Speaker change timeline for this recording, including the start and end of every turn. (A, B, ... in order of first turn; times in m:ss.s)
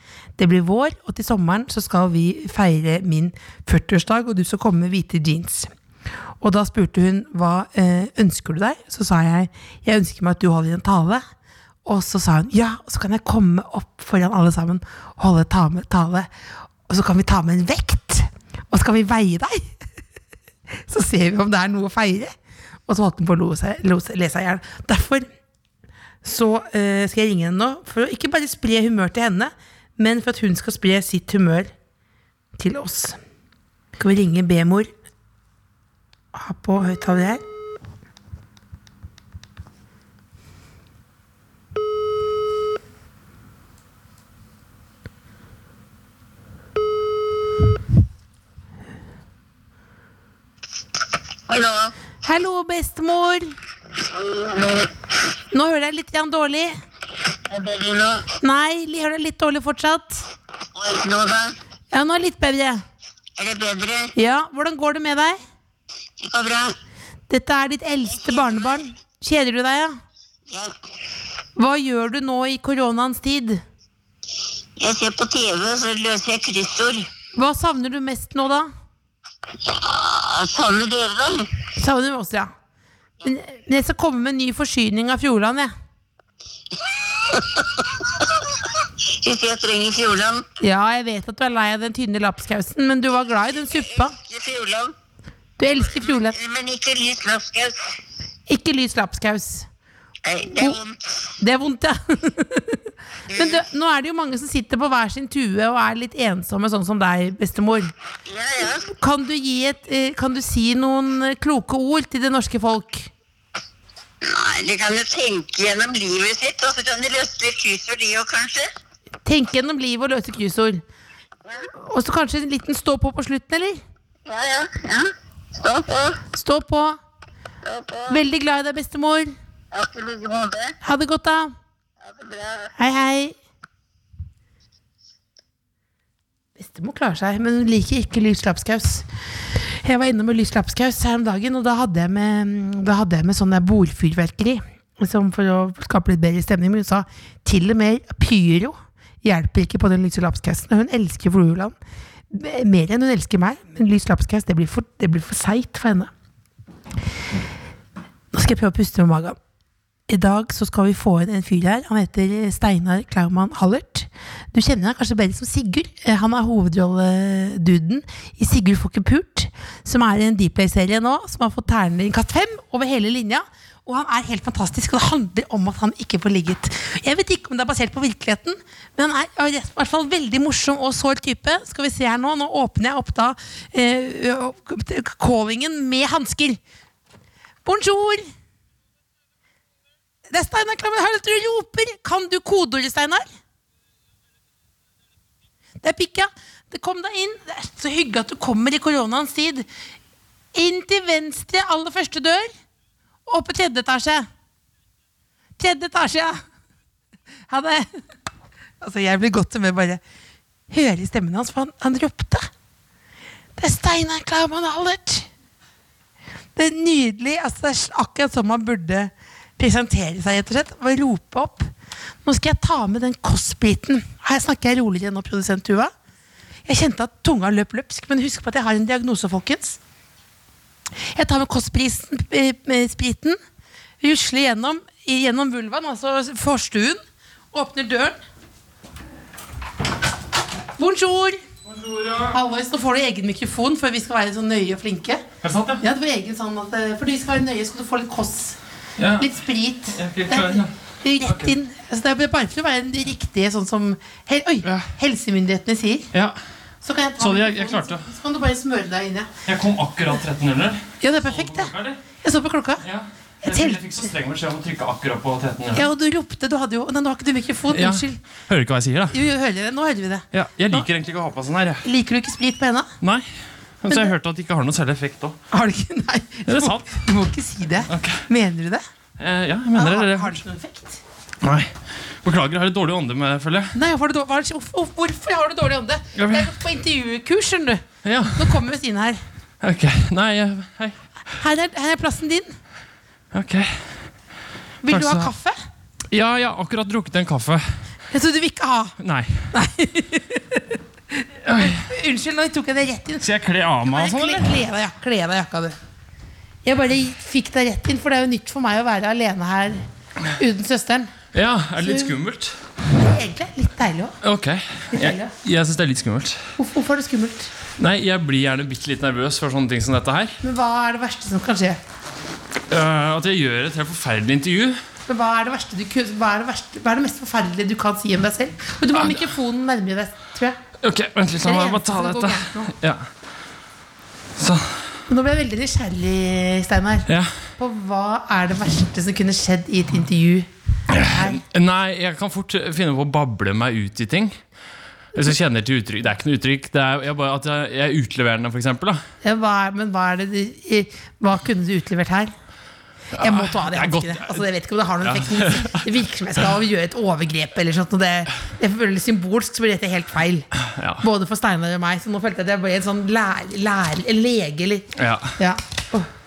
0:00.4-0:05.7 A
0:06.4-0:11.2 A
0:11.8-0:16.3 A
0:16.9-0:19.7 A
0:20.9-0:22.3 A
0:22.9-0:25.3 A
0:26.2-0:31.7 A
0:32.6-0:33.2 A
0:34.0-0:34.9 A
0:36.3-0:37.4 A
0:51.5-0:51.9 B
0:52.2-0:53.6 A
0:54.0-0:54.9 B
0:55.5-0:56.7 A
0:57.5-0:58.3 B
0:58.4-1:00.3 A
1:00.7-1:01.6 B
1:01.9-1:02.8 A
1:03.4-1:04.1 B
1:04.2-1:05.4 A
1:06.2-1:06.8 B
1:07.3-1:10.0 A
1:08.1-1:08.8 B
1:10.5-1:10.8 B
1:11.6-1:13.6 A
1:14.8-1:17.1 B
1:17.4-1:18.7 A
1:19.6-1:21.5 B
1:21.8-1:22.5 A
1:23.2-1:25.7 A
1:26.7-1:30.4 B
1:30.6-1:34.1 A
1:33.8-1:35.0 B
1:35.6-1:36.4 A
1:35.9-1:37.9 B
1:38.5-1:39.7 A
1:40.2-1:41.2 B
1:41.4-1:42.8 A
1:43.3-1:43.6 B
1:43.3-1:47.9 A
1:48.3-1:48.9 B
1:48.9-1:53.1 A
1:54.2-1:58.7 B
1:59.2-2:00.8 A
2:01.8-2:03.8 A
2:04.3-2:06.2 B
2:06.3-2:07.0 A
2:07.6-2:08.2 B
2:08.1-2:09.4 A
2:09.7-2:10.8 B
2:10.8-2:11.5 A
2:12.0-2:12.7 B
2:12.8-2:13.4 A
2:16.6-2:19.1 A
2:19.8-2:31.7 A
2:32.3-2:36.1 A
2:38.3-2:39.4 A
2:40.1-3:06.6 A
3:07.6-3:08.3 A
3:10.3-3:13.3 A
3:15.8-3:19.7 A
3:20.5-3:22.5 A
3:23.3-3:24.3 A
3:25.6-3:26.4 A
3:27.5-3:28.0 A
3:28.8-3:30.0 A
3:30.7-3:32.5 A
3:33.6-3:35.3 A
3:36.6-3:41.7 A
3:42.2-3:45.9 A
3:46.7-3:49.8 A
3:51.1-3:53.4 A
3:54.0-3:57.0 A
3:57.5-3:58.2 A
4:00.8-4:01.4 A
4:01.7-4:02.4 C
4:02.3-4:05.2 A
4:05.4-4:05.8 C
4:05.8-4:08.6 A
4:09.0-4:09.3 C
4:09.2-4:16.1 A
4:09.9-4:10.7 C
4:11.2-4:11.5 C
4:16.1-4:16.4 C
4:16.8-4:19.3 A
4:17.2-4:18.1 C
4:19.5-4:22.0 C
4:21.0-4:22.8 A
4:22.8-4:25.9 C
4:23.4-4:23.8 A
4:25.7-4:28.2 A
4:27.7-4:29.2 C
4:29.1-4:30.3 A
4:30.3-4:31.8 C
4:31.8-4:32.9 A
4:33.0-4:35.4 C
4:35.5-4:38.8 A
4:36.5-4:37.0 C
4:37.9-4:38.3 C
4:39.2-4:40.4 C
4:39.8-4:41.0 A
4:41.4-4:43.8 C
4:43.7-4:49.2 A
4:46.2-4:46.5 C
4:48.0-4:48.6 C
4:49.6-4:51.0 C
4:51.3-4:52.6 A
4:53.3-4:54.0 C
4:54.8-4:55.6 A
4:54.9-4:55.3 C
4:56.1-4:57.7 C
4:58.1-4:59.0 A
4:59.0-4:59.5 C
4:59.5-5:03.3 A
5:01.5-5:01.9 C
5:03.2-5:04.5 C
5:03.8-5:05.8 A
5:06.6-5:09.8 A
5:10.4-5:11.1 A
5:11.3-5:12.6 C
5:11.8-5:12.2 A
5:12.9-5:14.2 A
5:14.2-5:16.5 C
5:14.9-5:15.3 A
5:16.6-5:17.5 A
5:17.8-5:20.4 C
5:20.4-5:21.8 A
5:22.7-5:24.8 C
5:25.1-5:30.6 A
5:29.0-5:29.2 C
5:30.8-5:33.1 C
5:31.4-5:32.7 A
5:34.4-5:34.9 C
5:35.1-5:41.4 A
5:37.1-5:37.4 C
5:40.9-5:44.4 C
5:45.2-5:49.0 C
5:49.2-5:52.3 A
5:53.1-5:54.4 C
5:53.2-6:00.5 A
5:55.0-5:55.9 C
6:00.6-6:01.0 C
6:01.0-6:06.1 A
6:05.0-6:05.3 C